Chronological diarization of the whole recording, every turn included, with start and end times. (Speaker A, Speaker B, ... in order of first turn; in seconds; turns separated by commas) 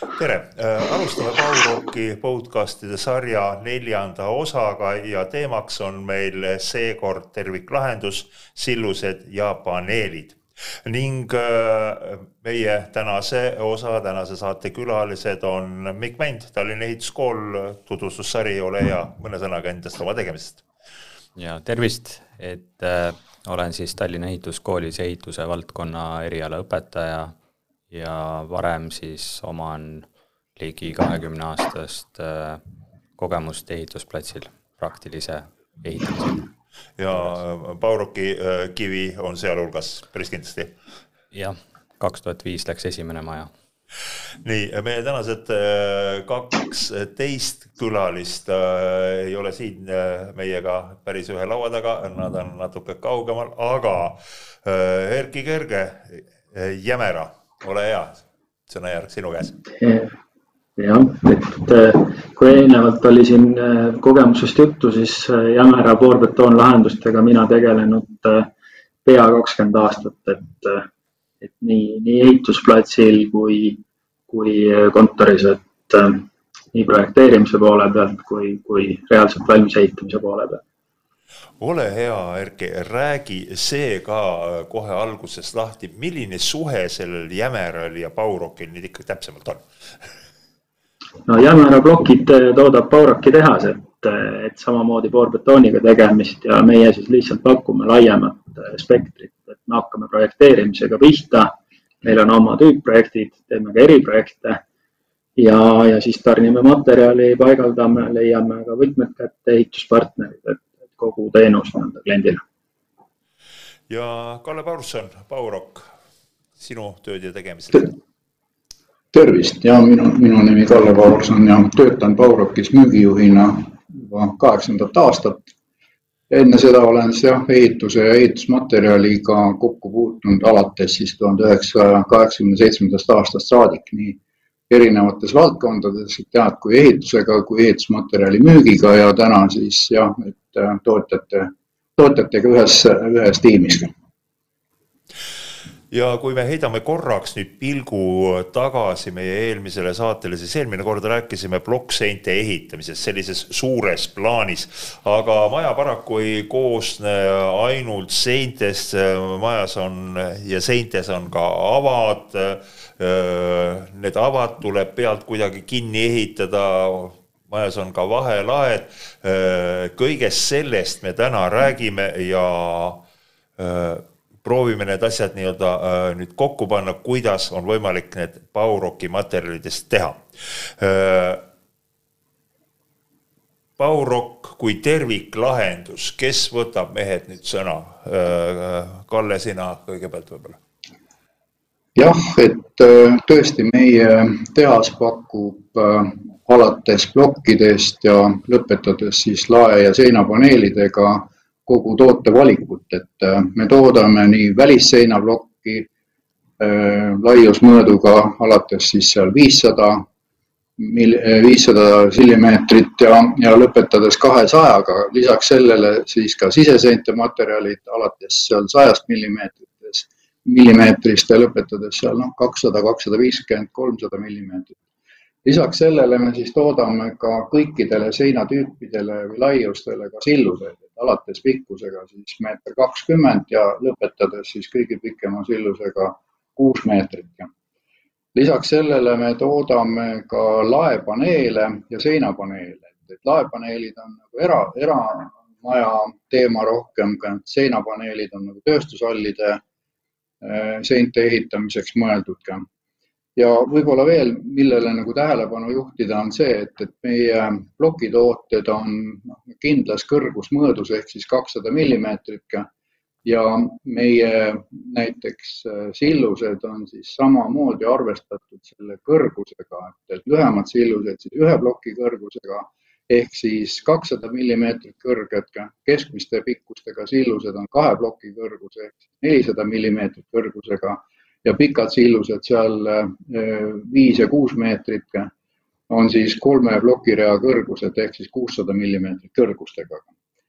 Speaker A: 0.2-20.6, Speaker B: 21.4-27.3, Speaker B: 27.9-32.6, Speaker B: 33.2-36.5, Speaker A: 37.0-40.7, Speaker B: 41.3-43.5, Speaker A: 44.4-59.6, Speaker C: 59.8-60.2, Speaker C: 60.8-68.5, Speaker C: 69.0-70.9, Speaker C: 71.4-80.6, Speaker A: 81.6-89.6, Speaker C: 91.3-104.6, Speaker C: 105.4-112.4, Speaker A: 113.9-115.9, Speaker A: 116.6-118.0, Speaker D: 119.1-125.5, Speaker D: 126.3-143.9, Speaker A: 145.9-173.0, Speaker A: 173.6-181.4, Speaker A: 183.8-190.6, Speaker D: 191.9-205.9, Speaker D: 206.6-210.1, Speaker D: 210.8-224.8, Speaker D: 225.4-237.5, Speaker D: 238.3-249.6, Speaker D: 250.4-252.7, Speaker D: 253.4-262.7, Speaker D: 263.2-285.3, Speaker D: 285.9-290.1